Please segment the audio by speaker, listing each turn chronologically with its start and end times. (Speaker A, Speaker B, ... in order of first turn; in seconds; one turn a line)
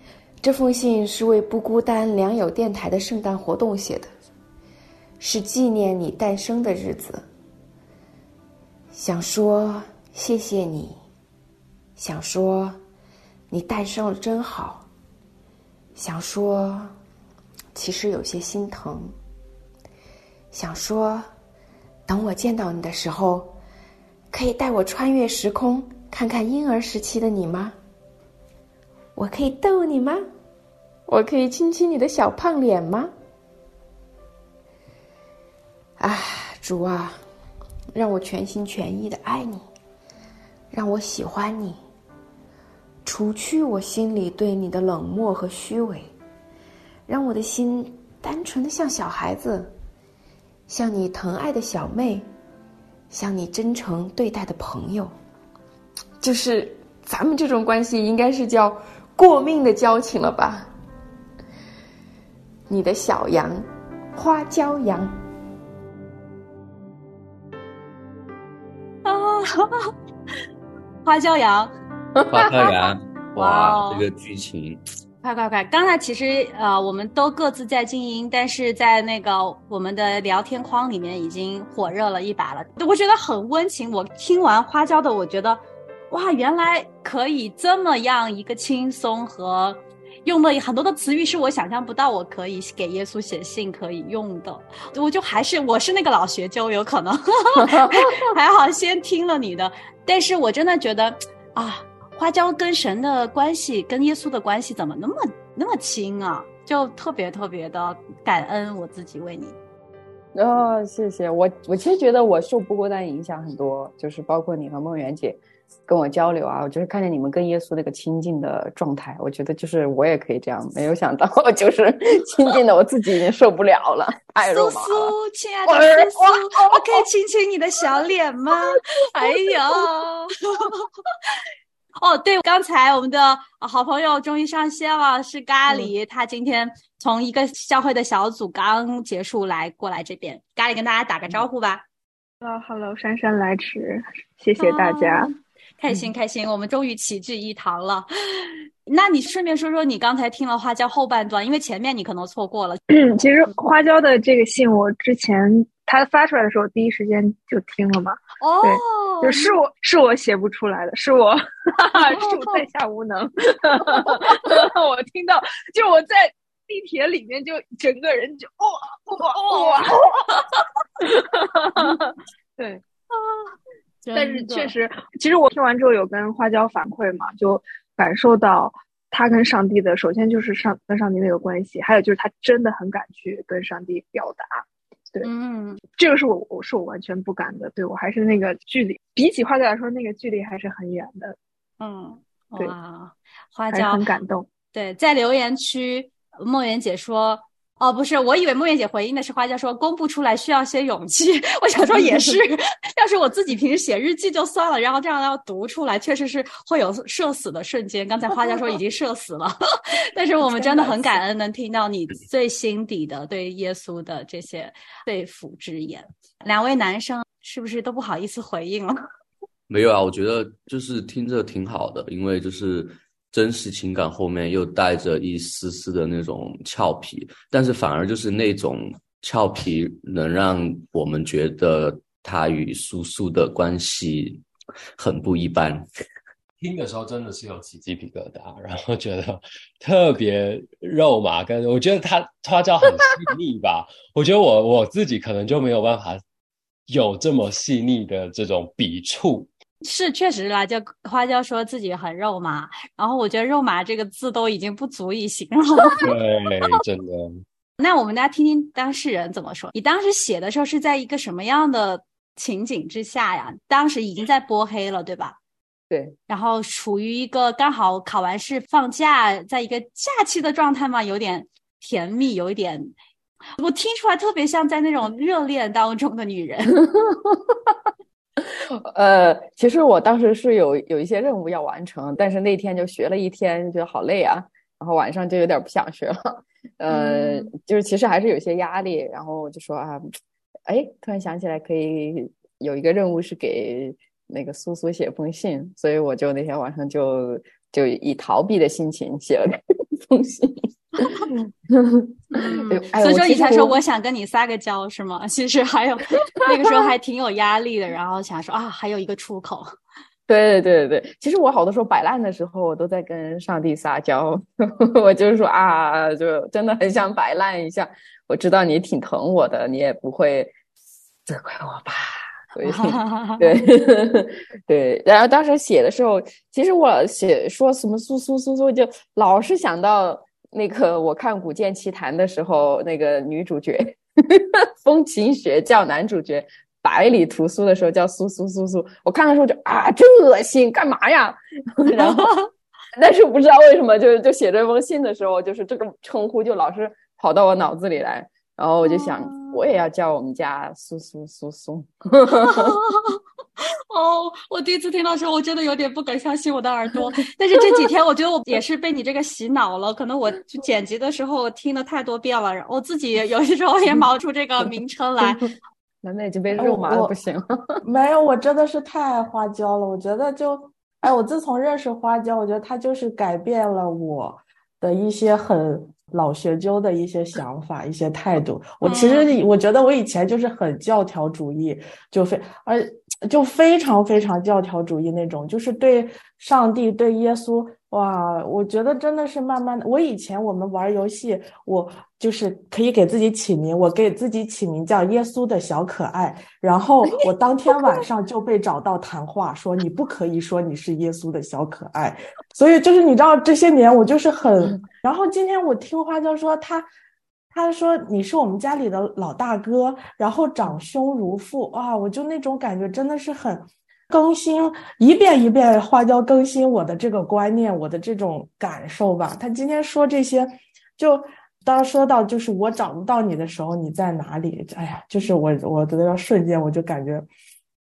Speaker A: 0.4-4.1
Speaker A: 5.2-7.2
Speaker A: 8.9-11.0
Speaker A: 12.0-12.8
Speaker A: 13.5-14.9
Speaker A: 16.0-16.9
Speaker A: 17.7-19.1
Speaker A: 20.5-21.3
Speaker A: 22.1-23.6
Speaker A: 24.3-27.8
Speaker A: 29.1-30.3
Speaker A: 31.1-33.1
Speaker A: 36.0-37.2
Speaker A: 37.9-39.7
Speaker A: 40.7-41.8
Speaker A: 43.0-46.1
Speaker A: 47.1-49.7
Speaker A: 50.7-52.3
Speaker A: 53.1-55.1
Speaker A: 56.2-60.7
Speaker A: 62.7-65.2
Speaker B: 69.1-69.9
Speaker B: 71.0-71.7
Speaker C: 72.3-74.8
Speaker B: 73.4-74.0
Speaker B: 75.2-109.6
Speaker D: 97.7-98.2
Speaker D: 110.3-125.1
Speaker B: 124.5-130.9
Speaker D: 125.7-126.8
Speaker B: 132.0-141.8
Speaker E: 142.4-145.3
Speaker B: 144.6-152.8
Speaker E: 152.9-172.8
Speaker B: 158.4-159.5
Speaker B: 162.0-162.7
Speaker B: 174.0-174.8
Speaker E: 174.1-185.3
Speaker B: 185.2-185.8
Speaker E: 186.0-191.4
Speaker B: 191.8-194.1
Speaker E: 193.7-194.5
Speaker B: 194.7-209.6
Speaker B: 210.1-219.0
Speaker C: 219.7-234.4
Speaker C: 235.0-235.9
Speaker F: 236.6-246.2
Speaker F: 246.9-249.5
Speaker B: 249.8-256.1
Speaker F: 256.0-257.4
Speaker B: 257.8-265.4
Speaker B: 266.3-272.9
Speaker B: 273.6-276.8
Speaker D: 276.8-277.7
Speaker D: 278.4-290.1
Speaker B: 286.9-287.5
Speaker D: 290.7-303.8
Speaker B: 302.3-309.7
Speaker D: 310.3-320.5
Speaker D: 321.3-342.4
Speaker B: 322.6-323.6
Speaker B: 341.9-342.4
Speaker D: 343.0-352.8
Speaker B: 348.8-349.6
Speaker B: 352.3-353.2
Speaker B: 353.9-365.4
Speaker D: 366.0-367.8
Speaker G: 366.5-367.2
Speaker G: 367.8-406.9
Speaker B: 378.8-379.3
Speaker G: 407.5-427.3